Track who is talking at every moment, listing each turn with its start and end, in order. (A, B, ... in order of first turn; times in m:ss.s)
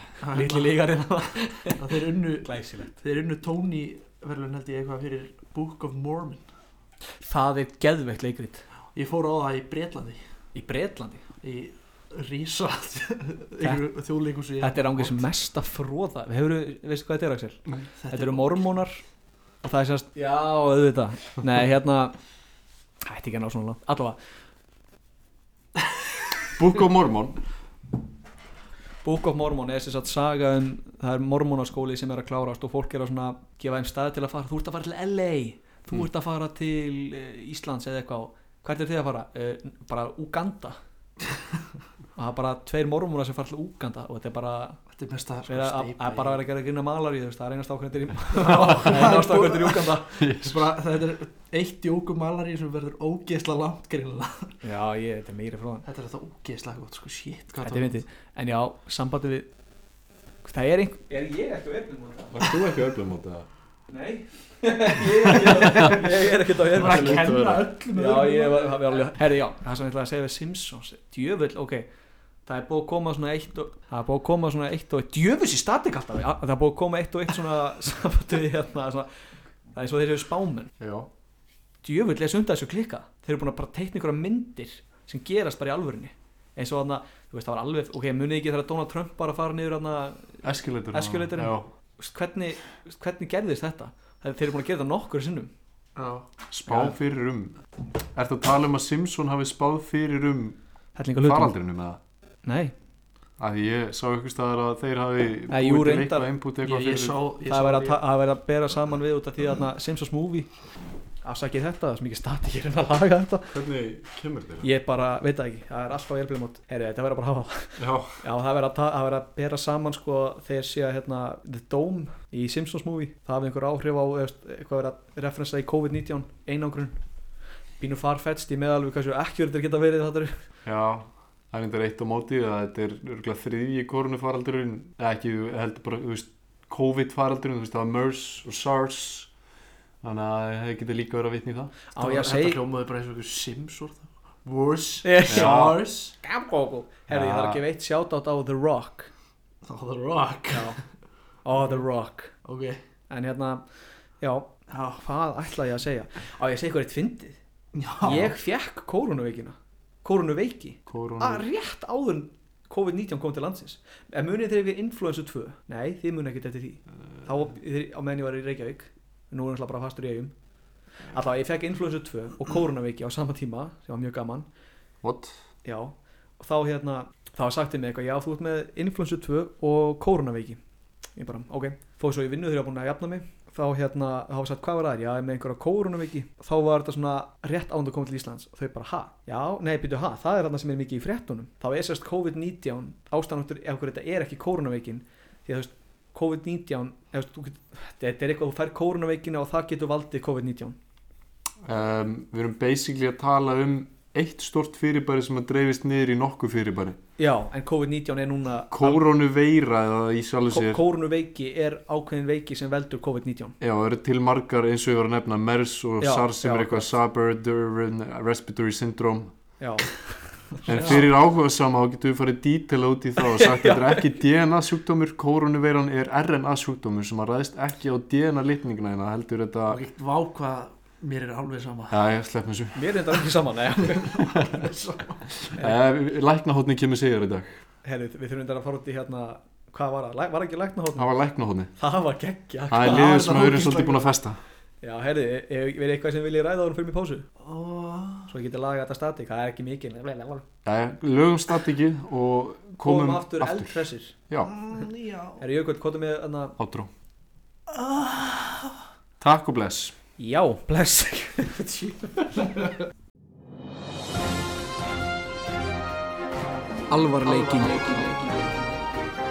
0:00.2-0:00.8 A
0:00.2-0:02.9 B
0:01.8-0:06.5 A
0:07.2-0:08.6 B
0:09.0-0:10.2 A
0:10.6-0:11.2 B
0:11.4-0:15.2 A
0:13.6-0:13.9 B
0:14.6-0:19.0 B
0:17.9-0:18.6 A
0:19.6-0:22.1 B
0:23.0-0:24.2 B
0:26.5-0:27.4 C
0:29.0-0:40.8 B
0:42.2-0:44.8 B
0:44.9-0:46.4 A
0:45.5-0:50.2 B
0:48.4-0:54.6 A
0:50.2-0:50.7 C
0:54.6-0:55.9 B
0:55.9-0:58.0 A
0:57.6-0:59.5 B
1:00.4-1:02.4 B
1:02.3-1:03.5 C
1:03.9-1:11.9 B
1:05.3-1:05.9 C
1:06.7-1:09.0 A
1:06.8-1:07.7 C
1:12.5-1:19.1 B
1:19.7-1:20.7 B
1:20.8-1:21.1 C
1:21.8-1:35.5 B
1:30.4-1:31.7 C
1:36.0-1:36.3 A
1:36.5-1:37.6 C
1:36.7-1:37.0 B
1:38.2-1:40.6 C
1:41.0-1:41.5 B
1:41.2-1:42.0 C
1:42.4-1:42.7 B
1:43.4-1:47.2 C
1:45.5-1:46.3 B
1:46.6-1:48.0 A
1:47.5-1:50.5 B
1:51.2-1:53.5 B
1:53.5-1:54.7 C
1:54.6-2:07.0 B
1:57.8-1:58.2 C
2:07.8-2:10.4 B
2:10.6-2:19.3 C
2:20.0-2:21.7 C
2:22.0-2:22.6 B
2:22.0-2:26.2 A
2:25.0-2:25.6 B
2:25.3-2:25.8 C
2:26.2-2:29.1 B
2:27.1-2:27.6 C
2:29.6-2:30.8 A
2:30.5-2:30.8 B
2:31.4-2:32.3 B
2:32.4-2:32.8 A
2:33.1-2:33.6 B
2:34.2-2:37.4 B
2:34.7-2:35.0 A
2:37.7-2:38.3 A
2:38.0-2:50.3 B
2:40.9-2:41.5 C
2:51.1-2:54.5 B
2:55.0-2:55.4 C
2:55.6-3:00.6 B
3:01.2-3:20.8 B
3:21.6-3:27.0 C
3:27.2-3:29.0 B
3:28.7-3:30.8 C
3:30.5-3:33.6 B
3:33.6-3:39.3 C
3:36.0-3:36.9 B
3:39.6-3:39.9 B
3:40.5-3:41.0 B
3:40.7-3:49.8 C
3:43.3-3:44.0 B
3:49.7-3:52.0 A
3:51.9-3:53.0 C
3:52.8-3:54.3 B
3:53.9-3:55.5 A
3:55.6-3:57.5 C
3:57.8-4:01.1 B
4:01.0-4:01.7 C
4:01.8-4:03.4 B
4:02.7-4:04.4 C
4:02.8-4:04.1 A
4:04.8-4:07.3 B
4:07.4-4:08.3 A
4:08.3-4:10.4 B
4:10.6-4:14.5 C
4:12.8-4:14.2 B
4:14.4-4:15.4 A
4:15.4-4:16.6 B
4:16.6-4:16.9 C
4:17.8-4:18.6 A
4:19.2-4:20.0 C
4:20.2-4:22.6 B
4:26.9-4:28.2 B